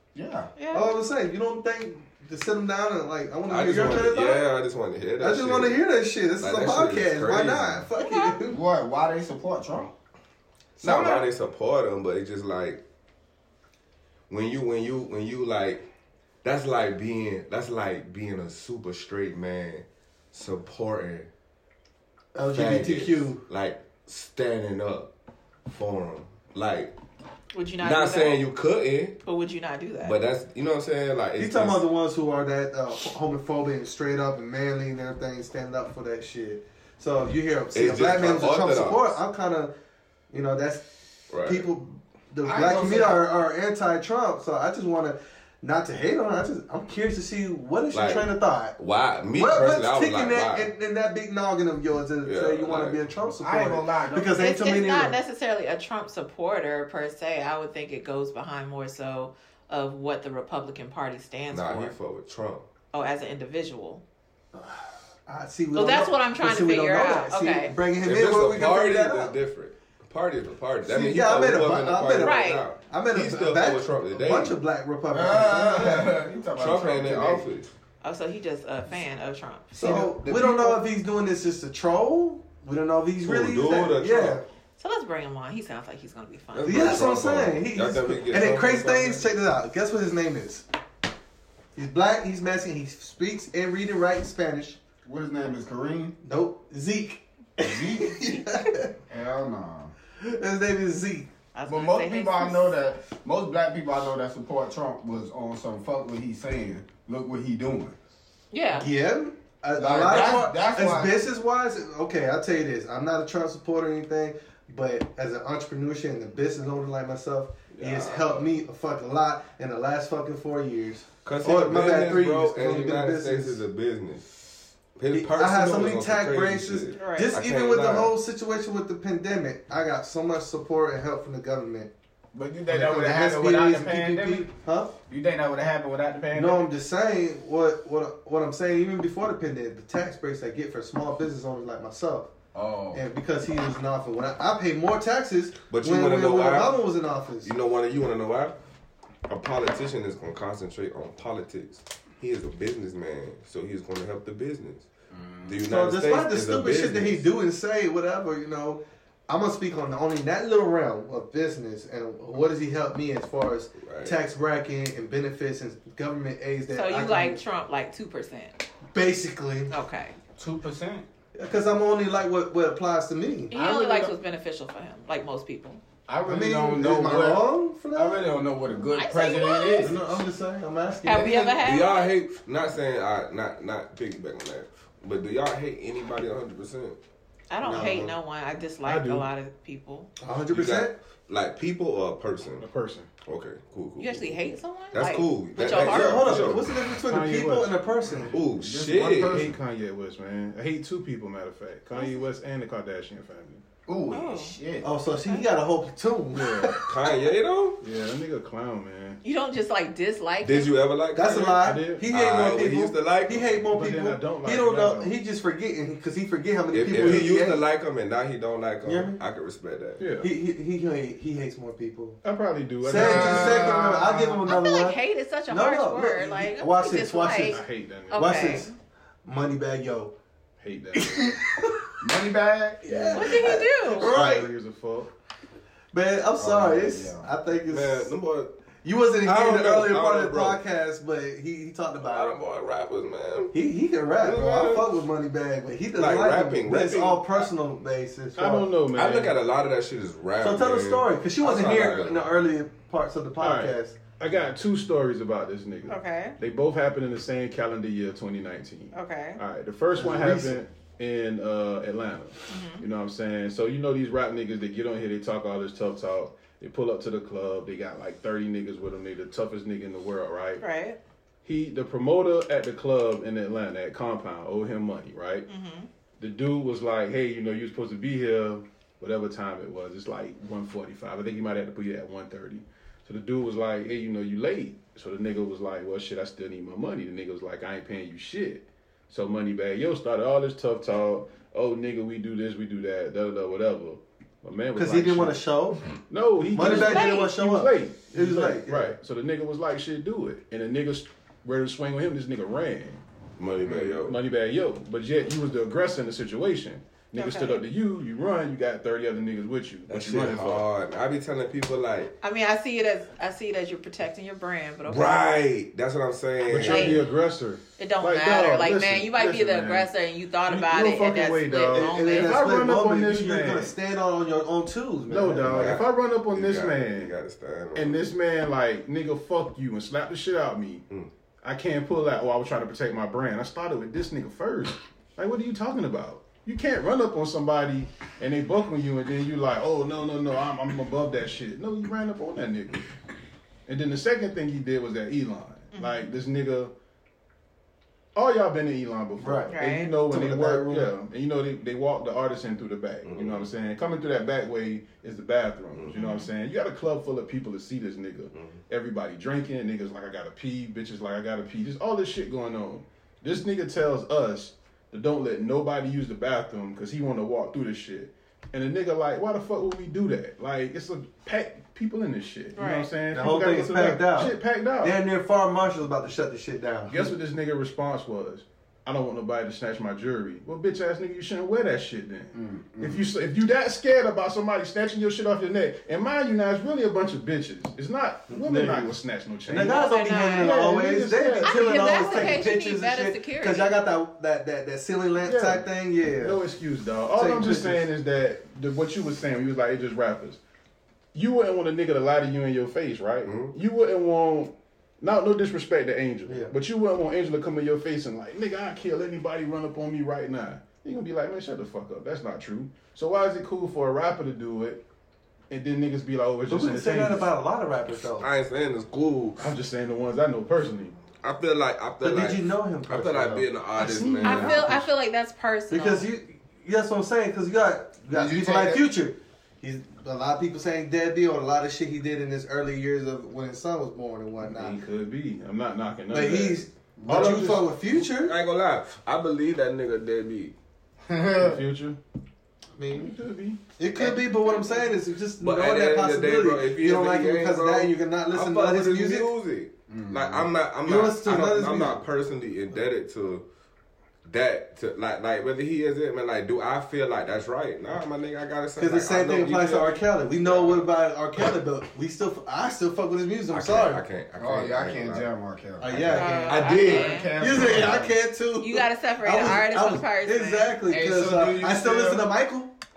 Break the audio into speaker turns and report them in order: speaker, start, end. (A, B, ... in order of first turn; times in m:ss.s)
0:00.1-0:00.5 A
0:00.6-0:00.9 B
0:00.7-0:04.4 C
0:03.5-0:05.8 D
0:05.2-0:08.6 C
0:06.4-0:07.8 D
0:08.0-0:08.4 B
0:08.5-0:09.9 A
0:10.8-0:12.8 D
0:10.8-0:11.2 A
0:14.3-0:15.8 D
0:16.4-0:21.3 D
0:22.3-0:23.4 C
0:22.5-0:25.1 D
0:25.7-0:26.9 D
0:27.5-0:28.4 B
0:27.8-0:29.2 D
0:29.2-0:30.2 B
0:30.0-0:31.8 D
0:31.4-0:39.7 C
0:37.7-0:39.2 D
0:40.3-0:40.8 C
0:41.3-0:41.7 D
0:41.4-0:48.8 C
0:42.4-0:43.2 A
0:47.9-0:50.7 D
0:49.3-0:55.2 C
0:52.2-0:53.0 D
0:53.4-0:54.5 A
0:54.4-1:01.9 B
1:01.5-1:02.7 D
1:02.9-1:04.0 B
1:04.5-1:09.4 C
1:05.7-1:07.7 B
1:08.0-1:14.6 D
1:10.8-1:16.2 C
1:12.2-1:12.6 B
1:15.1-1:17.5 A
1:16.6-1:17.7 D
1:18.0-1:20.4 B
1:19.7-1:24.4 C
1:19.7-1:20.8 A
1:23.2-1:24.4 D
1:24.8-1:27.0 B
1:26.5-1:29.3 D
1:26.6-1:30.6 C
1:31.8-1:34.8 C
1:35.0-1:36.2 A
1:36.2-1:38.9 C
1:37.6-1:38.2 A
1:39.1-1:39.9 A
1:40.2-1:41.3 C
1:41.5-1:42.8 B
1:41.7-1:48.0 A
1:48.5-1:48.9 B
1:48.7-2:03.6 C
1:49.8-1:51.2 A
1:57.7-1:58.5 D
2:01.2-2:04.2 D
2:05.0-2:08.1 D
2:05.1-2:11.9 C
2:06.9-2:07.4 B
2:12.3-2:14.5 A
2:12.7-2:14.9 C
2:15.1-2:16.6 A
2:16.3-2:22.3 C
2:22.5-2:23.0 A
2:22.9-2:27.5 C
2:25.7-2:26.8 D
2:27.4-2:28.6 D
2:29.3-2:34.9 D
2:35.1-2:35.6 A
2:35.4-2:37.3 D
2:35.6-2:47.4 C
2:43.8-2:44.2 D
2:46.7-2:48.5 B
2:48.9-2:49.7 C
2:49.7-2:50.1 B
2:50.4-2:51.0 A
2:51.3-2:53.5 C
2:53.5-2:55.8 B
2:53.5-2:54.1 A
2:56.1-3:00.0 A
2:56.2-2:58.5 C
2:58.9-3:00.0 B
2:59.8-3:01.4 C
3:01.0-3:02.1 B
3:01.0-3:01.6 A
3:01.6-3:07.0 D
3:07.5-3:10.1 B
3:07.6-3:08.1 C
3:08.8-3:09.3 E
3:10.2-3:10.9 C
3:10.5-3:12.6 D
3:12.6-3:13.1 E
3:13.2-3:16.7 D
3:14.0-3:16.4 B
3:15.6-3:18.3 C
3:16.3-3:18.4 E
3:18.3-3:19.5 D
3:18.6-3:19.5 A
3:19.2-3:23.6 E
3:21.9-3:22.2 B
3:23.9-3:24.9 A
3:24.1-3:24.5 B
3:24.8-3:26.8 C
3:26.3-3:26.8 E
3:26.8-3:27.8 D
3:27.8-3:29.2 E
3:29.2-3:30.7 B
3:30.4-3:31.6 D
3:31.1-3:37.6 C
3:31.6-3:32.0 E
3:32.1-3:33.6 D
3:33.7-3:35.2 E
3:36.7-3:40.0 D
3:36.9-3:37.3 E
3:38.8-3:39.2 C
3:40.0-3:40.3 E
3:40.2-3:42.2 C
3:42.2-3:44.0 E
3:42.8-3:48.7 C
3:42.9-3:44.4 A
3:44.4-3:48.7 B
3:47.5-3:48.6 E
3:49.2-3:50.1 C
3:50.6-3:51.4 E
3:51.0-3:51.8 C
3:52.0-3:53.3 A
3:52.8-3:54.5 C
3:53.1-3:54.1 B
3:53.3-3:55.1 E
3:55.9-3:58.1 C
3:56.4-3:57.3 A
3:57.7-3:58.5 D
3:58.8-4:02.4 C
3:59.2-4:00.6 D
4:02.0-4:03.5 D
4:03.5-4:08.7 C
4:04.2-4:05.0 D
4:05.9-4:07.5 D
4:08.4-4:09.4 E
4:08.9-4:12.3 D
4:10.4-4:14.0 C
4:13.4-4:30.6 E
4:15.9-4:16.4 B
4:18.9-4:19.4 B
4:19.9-4:20.6 C
4:22.5-4:22.8 B
4:30.6-4:31.0 B
4:31.4-4:35.5 E
4:35.5-4:35.9 B
4:36.2-4:55.4 E
4:54.8-4:56.0 C
4:56.1-5:03.0 E
4:56.5-4:59.0 C
4:56.6-4:57.3 B
5:03.4-5:04.2 D
5:03.7-5:10.6 E
5:07.1-5:07.6 B
5:09.9-5:12.1 D
5:12.2-5:15.3 B
5:14.8-5:17.0 D
5:16.4-5:19.9 E
5:16.6-5:17.1 B
5:17.8-5:22.4 B
5:20.4-5:23.7 E
5:21.7-5:25.8 C
5:25.1-5:27.1 E
5:25.4-5:28.1 D
5:27.7-5:30.8 E
5:31.4-5:42.8 E
5:43.7-5:46.7 E
5:45.7-5:46.1 B
5:48.1-6:15.0 E
5:49.2-5:49.6 C
5:49.5-5:49.9 B
5:50.1-5:50.9 C
5:53.0-5:53.5 D
5:55.9-5:56.3 B
5:58.3-5:58.6 D
6:12.5-6:12.9 B
6:13.1-6:17.1 C
6:16.9-6:32.4 E
6:22.3-6:23.1 A
6:28.3-6:28.9 C
6:29.4-6:36.4 C
6:29.5-6:30.5 B
6:31.4-6:33.8 B
6:35.2-6:40.4 E
6:37.1-6:37.9 C
6:41.1-6:54.8 E
6:43.2-6:43.5 D
6:46.2-6:46.5 C
6:55.5-6:57.3 E
6:56.5-6:58.3 C
6:58.2-6:59.5 D
6:59.4-7:01.0 E
7:01.2-7:04.8 D
7:02.0-7:03.5 C
7:03.8-7:04.7 E
7:04.0-7:04.8 C
7:04.2-7:06.1 B
7:05.7-7:14.8 C
7:08.1-7:08.9 A
7:14.4-7:17.7 E
7:16.1-7:18.4 C
7:17.0-7:17.5 A
7:18.0-7:20.5 D
7:21.1-7:21.6 A
7:21.4-7:22.0 E
7:22.7-7:23.2 C
7:22.9-7:23.6 E
7:23.8-7:29.3 C
7:24.3-7:25.0 B
7:25.4-7:33.4 D
7:29.9-7:30.4 A
7:30.8-7:32.0 C
7:34.2-7:40.9 D
7:38.8-7:44.0 C
7:43.5-7:45.3 D
7:44.4-7:48.1 A
7:45.8-7:52.7 C
7:45.9-7:48.0 D
7:46.1-7:47.3 B
7:48.6-7:50.8 B
7:50.9-7:52.3 A